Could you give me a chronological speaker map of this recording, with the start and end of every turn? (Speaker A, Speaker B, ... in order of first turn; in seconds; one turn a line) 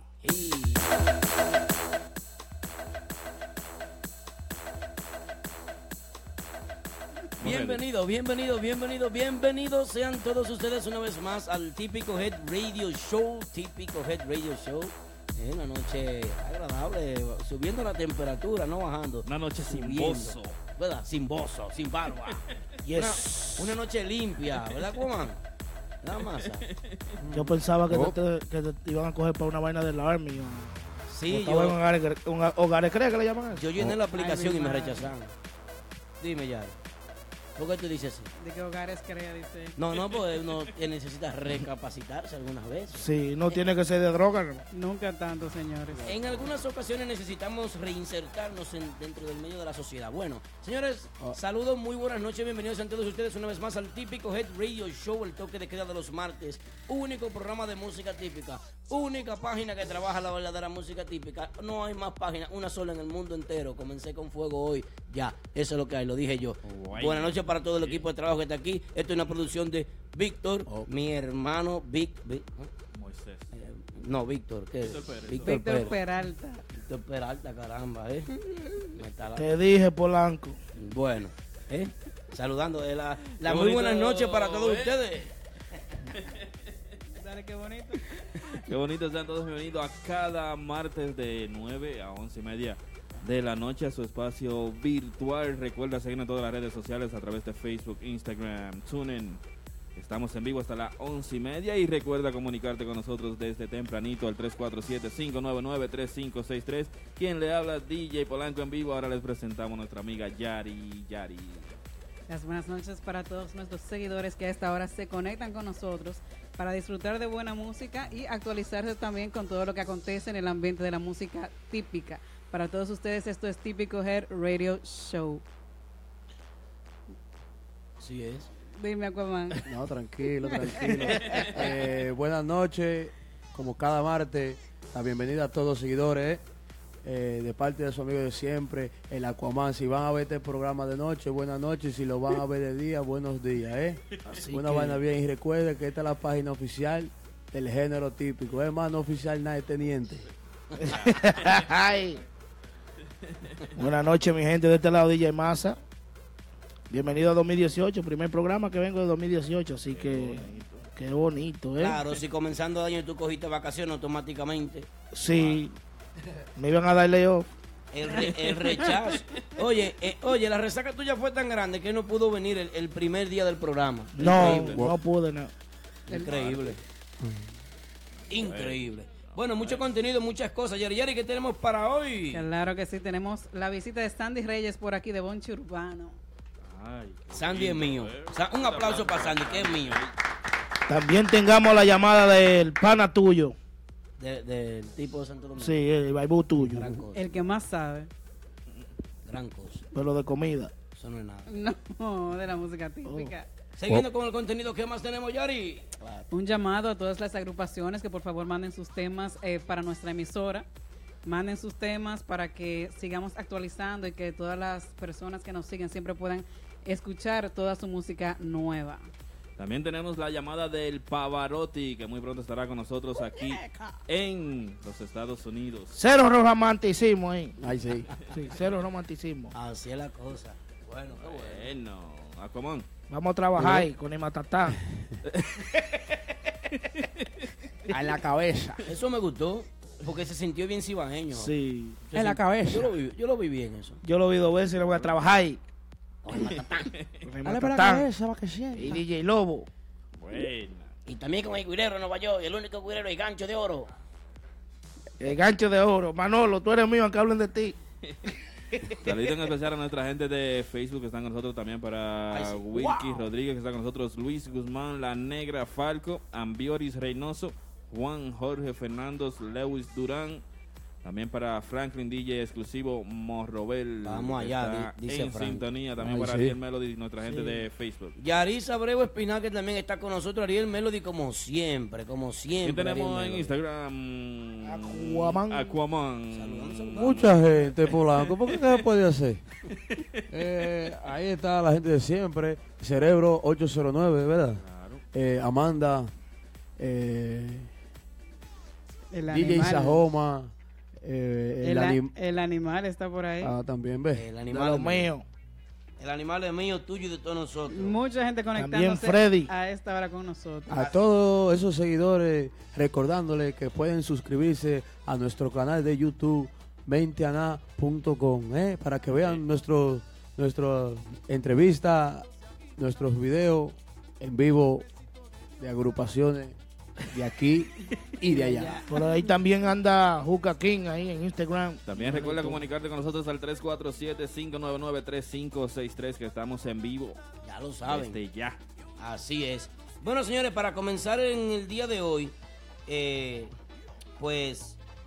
Speaker A: 0.2-0.9
Speaker B: 7.4-7.8
Speaker A: 7.4-22.4
Speaker B: 19.2-20.6
Speaker C: 22.8-23.8
Speaker A: 22.9-25.4
Speaker A: 26.0-26.6
Speaker B: 26.1-27.1
Speaker D: 27.2-28.1
Speaker C: 27.3-30.7
Speaker A: 31.1-31.8
Speaker C: 31.3-33.8
Speaker A: 33.5-35.3
Speaker E: 34.1-35.1
Speaker A: 36.2-36.8
Speaker A: 37.5-38.3
Speaker E: 38.4-39.8
Speaker A: 39.8-43.1
Speaker C: 42.9-44.6
Speaker E: 44.7-46.1
Speaker A: 46.0-72.7
Speaker B: 66.6-68.1
Speaker B: 72.9-73.5
Speaker A: 73.5-76.0
Speaker B: 74.8-75.6
Speaker E: 75.4-76.6
Speaker A: 76.7-79.5
Speaker C: 79.3-80.6
Speaker A: 80.8-85.3
Speaker B: 83.4-85.0
Speaker E: 87.2-88.0
Speaker B: 88.5-99.4
Speaker B: 100.0-111.8
Speaker E: 112.3-125.4
Speaker A: 128.0-128.5
Speaker E: 128.8-129.6
Speaker D: 129.6-136.4
Speaker E: 130.5-131.4
Speaker D: 137.0-150.2
Speaker C: 144.3-144.9
Speaker C: 150.8-152.2
Speaker C: 153.8-155.8
Speaker C: 156.9-160.4
Speaker B: 159.9-160.8
Speaker C: 160.9-162.0
Speaker A: 161.8-164.9
Speaker C: 165.1-165.7
Speaker B: 165.3-165.6
Speaker C: 166.6-167.5
Speaker A: 167.9-174.8
Speaker C: 174.2-175.5
Speaker B: 174.2-174.9
Speaker A: 176.1-176.8
Speaker B: 176.1-176.8
Speaker B: 178.3-179.9
Speaker A: 178.3-182.4
Speaker E: 182.3-186.2
Speaker B: 186.6-190.1
Speaker A: 187.3-190.0
Speaker C: 190.9-193.6
Speaker A: 194.2-195.8
Speaker C: 195.6-197.0
Speaker A: 196.7-197.3
Speaker E: 197.1-198.1
Speaker A: 199.2-199.8
Speaker C: 199.9-200.8
Speaker A: 200.9-201.5
Speaker E: 201.5-203.5
Speaker C: 203.1-203.3
Speaker A: 203.8-206.2
Speaker E: 206.3-210.7
Speaker E: 211.2-219.1
Speaker B: 219.6-226.0
Speaker C: 225.9-227.6
Speaker D: 227.6-228.1
Speaker C: 228.3-229.5
Speaker A: 229.5-231.7
Speaker B: 231.2-232.8
Speaker C: 233.1-234.8
Speaker D: 233.6-233.9
Speaker D: 237.9-238.8
Speaker A: 238.8-241.5
Speaker C: 241.3-242.0
Speaker A: 242.1-244.0
Speaker D: 242.1-242.9
Speaker C: 244.0-245.6
Speaker B: 244.9-245.3
Speaker A: 246.3-246.6
Speaker B: 246.5-247.2
Speaker C: 247.2-248.1
Speaker D: 247.4-249.0
Speaker C: 248.7-249.7
Speaker B: 250.2-250.9
Speaker A: 251.1-253.9
Speaker C: 255.2-257.8
Speaker B: 259.0-270.4
Speaker A: 262.3-263.2
Speaker B: 271.0-278.1
Speaker A: 274.0-275.6
Speaker D: 276.0-276.6
Speaker C: 277.2-277.6
Speaker A: 278.2-283.5
Speaker B: 282.6-288.7
Speaker C: 284.6-285.7
Speaker A: 286.3-287.1
Speaker D: 286.9-289.4
Speaker D: 290.3-294.6
Speaker B: 294.6-295.0
Speaker D: 295.1-296.1
Speaker D: 296.8-297.7
Speaker E: 299.1-300.0
Speaker D: 299.3-302.1
Speaker E: 301.6-303.5
Speaker D: 303.4-304.2
Speaker A: 304.1-305.1
Speaker C: 304.5-305.2
Speaker A: 306.0-308.0
Speaker E: 307.7-310.8
Speaker C: 308.6-309.5
Speaker D: 310.7-324.9
Speaker B: 319.1-319.4
Speaker D: 325.6-326.6
Speaker D: 327.1-328.8
Speaker E: 328.3-328.9
Speaker C: 328.9-331.8
Speaker B: 331.9-337.2
Speaker A: 332.1-332.6
Speaker A: 337.4-338.2
Speaker B: 337.8-338.6
Speaker A: 339.0-342.4
Speaker A: 342.9-343.5
Speaker A: 344.2-344.8